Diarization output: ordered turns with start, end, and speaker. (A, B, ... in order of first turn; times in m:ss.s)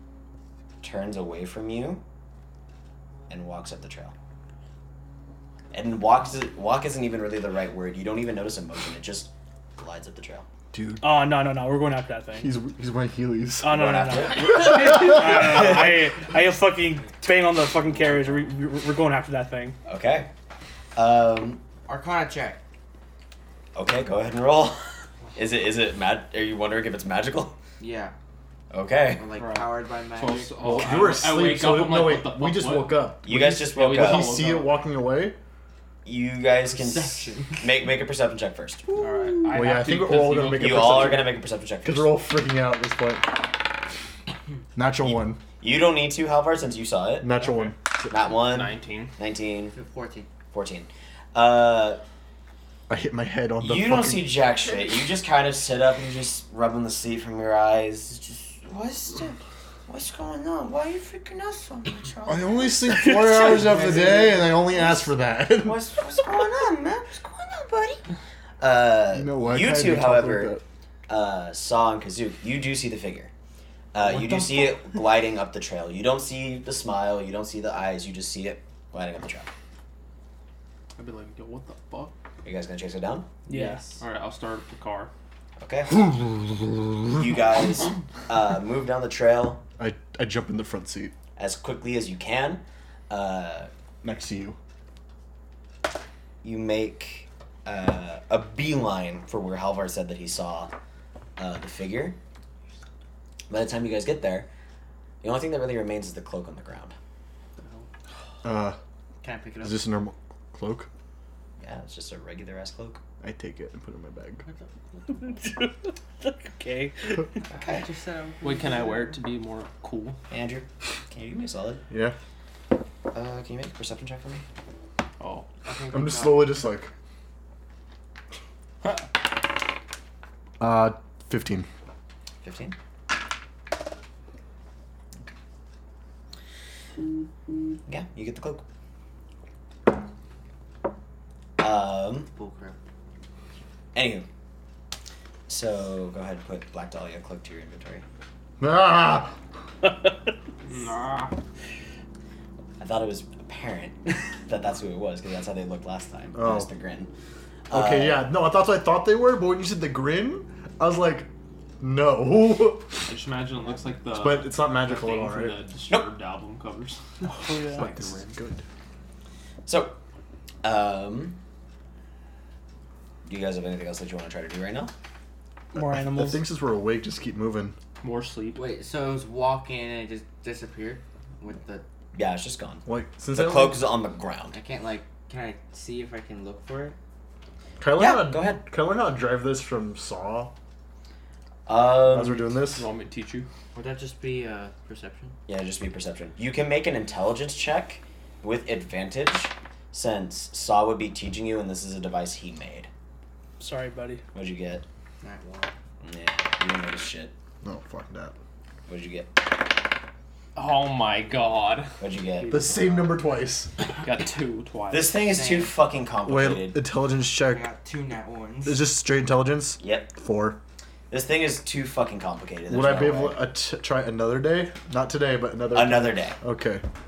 0:00.8-0:02.0 A
0:03.3-0:04.2 A
0:05.7-0:10.5 A
0:10.7-0:11.2 B
0:11.0-0:12.5 C
0:12.4-0:13.8 B
0:13.6-0:19.8 C
0:13.7-0:16.1 A
0:14.4-0:15.1 B
0:19.9-0:20.3 A
0:21.0-0:21.6 A
0:21.8-0:22.6 D
0:23.8-0:27.6 A
0:27.8-0:28.1 D
0:28.7-0:29.3 A
0:29.1-0:30.8 D
0:29.4-0:34.8 E
0:30.6-0:35.4 B
0:33.2-0:34.4 A
0:36.0-0:38.9 A
0:36.6-0:37.8 D
0:39.0-0:41.3 E
0:39.4-0:43.6 B
0:40.6-0:42.2 A
0:44.8-0:45.4 B
0:45.6-0:47.3 A
0:47.2-0:48.1 B
0:48.1-0:49.8 A
0:48.3-0:49.2 E
0:49.7-0:50.3 D
0:50.5-0:52.0 A
0:52.9-0:54.4 B
0:53.6-1:05.0 A
1:02.3-1:05.8 B
1:03.6-1:04.5 D
1:05.6-1:08.0 A
1:08.6-1:10.5 A
1:09.1-1:10.6 B
1:11.1-1:13.3 A
1:13.9-1:19.5 A
1:21.0-1:22.1 E
1:22.4-1:23.3 A
1:23.5-1:24.0 C
1:23.5-1:23.9 D
1:24.0-1:25.1 E
1:25.6-1:26.1 A
1:27.1-1:29.6 A
1:29.8-1:31.2 B
1:31.4-1:33.7 A
1:34.0-1:34.6 B
1:36.4-1:40.7 A
1:41.4-1:42.2 A
1:43.5-1:44.5 A
1:45.2-1:47.0 A
1:47.6-1:47.9 E
1:48.4-1:48.8 B
1:49.2-1:49.9 D
1:49.6-1:50.9 B
1:51.6-1:53.0 A
1:53.2-1:54.4 B
1:54.4-1:55.3 D
1:55.1-1:57.3 C
1:57.5-1:59.0 D
1:57.5-1:57.9 A
1:58.4-2:00.2 E
2:00.3-2:01.8 A
2:01.9-2:02.2 B
2:03.1-2:04.4 A
2:05.2-2:05.5 E
2:05.6-2:06.6 D
2:05.9-2:06.9 B
2:10.6-2:11.7 B
2:12.4-2:12.8 A
2:17.9-2:18.6 A
2:21.6-2:22.3 A
2:22.3-2:22.8 D
2:23.9-2:24.3 A
2:25.5-2:28.0 A
2:28.6-2:29.4 B
2:30.7-2:31.4 E
2:32.8-2:37.1 A
2:36.4-2:36.7 B
2:37.7-2:38.3 A
2:37.7-2:43.1 B
2:43.0-2:47.0 E
2:44.1-2:45.6 B
2:47.2-2:47.9 C
2:47.4-2:48.6 B
2:47.7-2:48.4 E
2:49.7-2:50.0 A
2:50.6-2:51.4 A
2:53.3-2:54.9 A
2:55.7-2:56.4 C
2:55.7-2:57.8 B
2:58.0-2:58.6 E
2:58.5-3:01.8 D
3:02.1-3:04.6 A
3:02.9-3:03.9 B
3:04.5-3:07.0 D
3:07.8-3:10.5 B
3:08.0-3:08.6 A
3:11.7-3:12.5 A
3:12.0-3:12.9 B
3:12.6-3:13.5 E
3:13.7-3:15.4 D
3:15.5-3:22.9 A
3:23.6-3:24.2 C
3:24.3-3:24.8 A
3:25.2-3:25.7 D
3:26.0-3:27.3 A
3:27.6-3:28.4 B
3:28.9-3:29.4 A
3:30.6-3:33.3 E
3:32.0-3:32.6 A
3:32.5-3:33.7 B
3:33.9-3:35.2 E
3:34.9-3:36.8 A
3:35.2-3:35.8 D
3:36.2-3:37.7 B
3:37.5-3:38.8 D
3:38.6-3:40.6 B
3:39.8-3:40.1 A
3:41.1-3:43.4 A
3:42.7-3:46.8 B
3:45.7-3:46.4 A